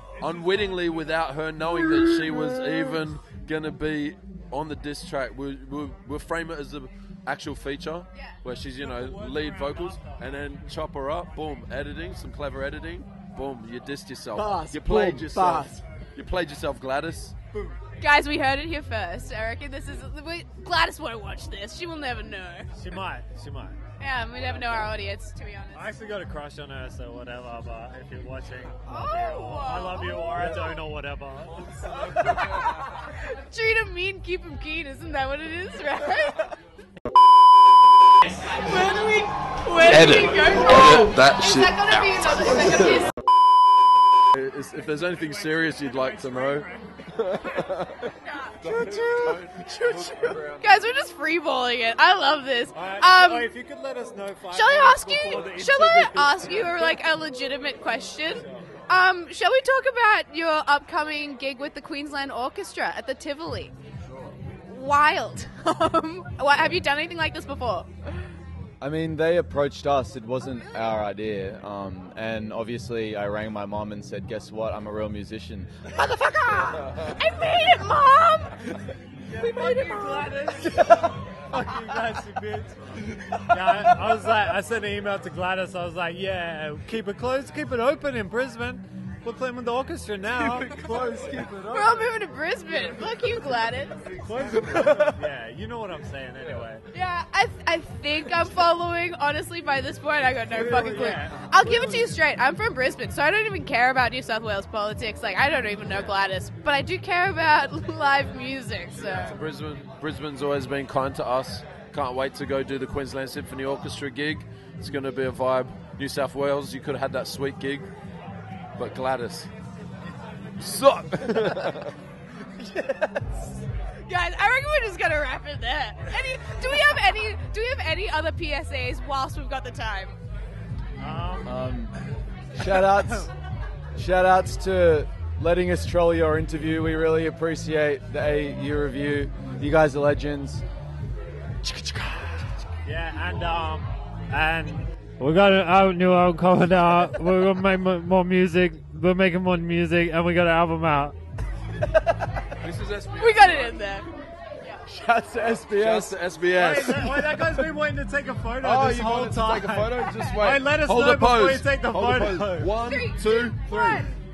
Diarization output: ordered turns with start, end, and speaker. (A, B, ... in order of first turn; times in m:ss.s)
0:00.2-0:17.4 A
0:08.8-0:10.4 B
0:14.3-0:15.8 C
0:18.0-0:22.7 D
0:22.8-0:23.8 B
0:24.0-0:25.9 D
0:25.7-0:32.1 B
0:28.8-0:30.6 D
0:32.0-0:36.6 D
0:38.3-0:43.1 D
0:39.8-0:43.1 A
0:44.3-0:50.8 A
0:45.0-0:46.9 B
0:48.2-0:48.6 D
0:48.6-0:50.4 C
0:48.7-0:49.2 B
0:50.6-0:53.5 D
0:52.7-0:57.0 B
0:54.5-1:03.7 D
1:04.7-1:07.9 D
1:08.8-1:15.7 C
1:15.9-1:18.8 D
1:19.3-1:32.1 B
1:19.3-1:20.8 D
1:30.6-1:31.2 A
1:30.7-1:31.6 C
1:31.6-1:34.1 D
1:34.1-1:36.8 B
1:34.7-1:35.0 A
1:36.9-1:49.4 D
1:40.5-1:42.2 B
1:48.9-1:57.9 A
1:58.8-1:59.5 A
2:00.6-2:02.0 A
2:04.0-2:10.2 D
2:11.0-2:11.5 B
2:11.4-2:11.9 C
2:12.5-2:13.3 C
2:14.0-2:20.6 C
2:21.6-2:22.4 C
2:22.8-2:31.2 B
2:32.6-2:33.7 A
2:33.1-2:34.1 D
2:34.8-2:36.2 C
2:35.4-2:37.4 A
2:36.5-2:42.7 B
2:38.6-2:44.0 A
2:42.8-2:44.1 D